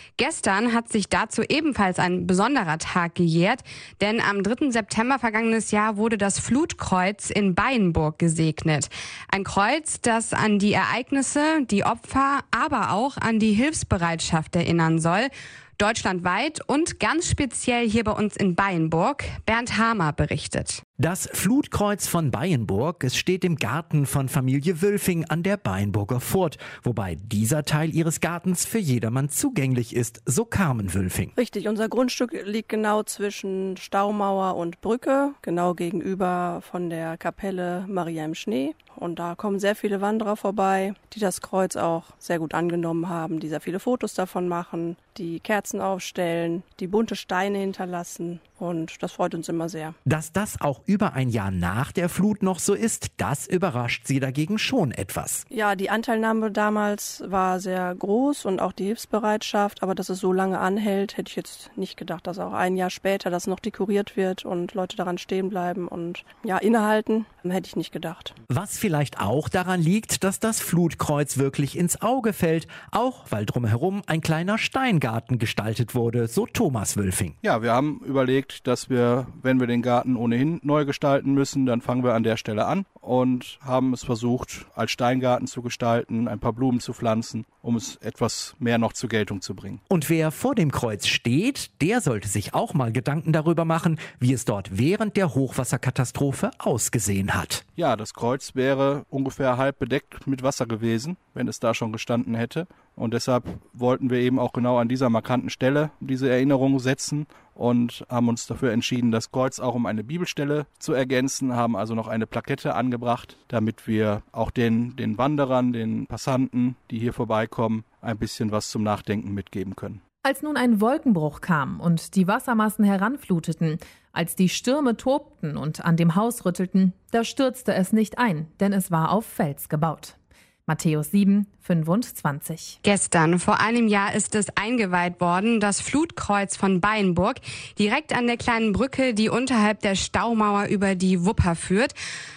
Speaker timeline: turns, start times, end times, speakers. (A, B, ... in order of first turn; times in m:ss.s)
0:00.2-0:20.8 A
0:21.0-0:31.3 B
0:31.4-0:50.0 C
0:50.1-0:55.4 B
0:55.5-1:08.3 C
1:08.5-1:17.3 B
1:17.4-1:29.8 D
1:30.0-1:37.6 B
1:37.8-2:00.0 D
2:00.2-2:10.1 E
2:10.7-2:12.8 E
2:12.8-2:21.9 A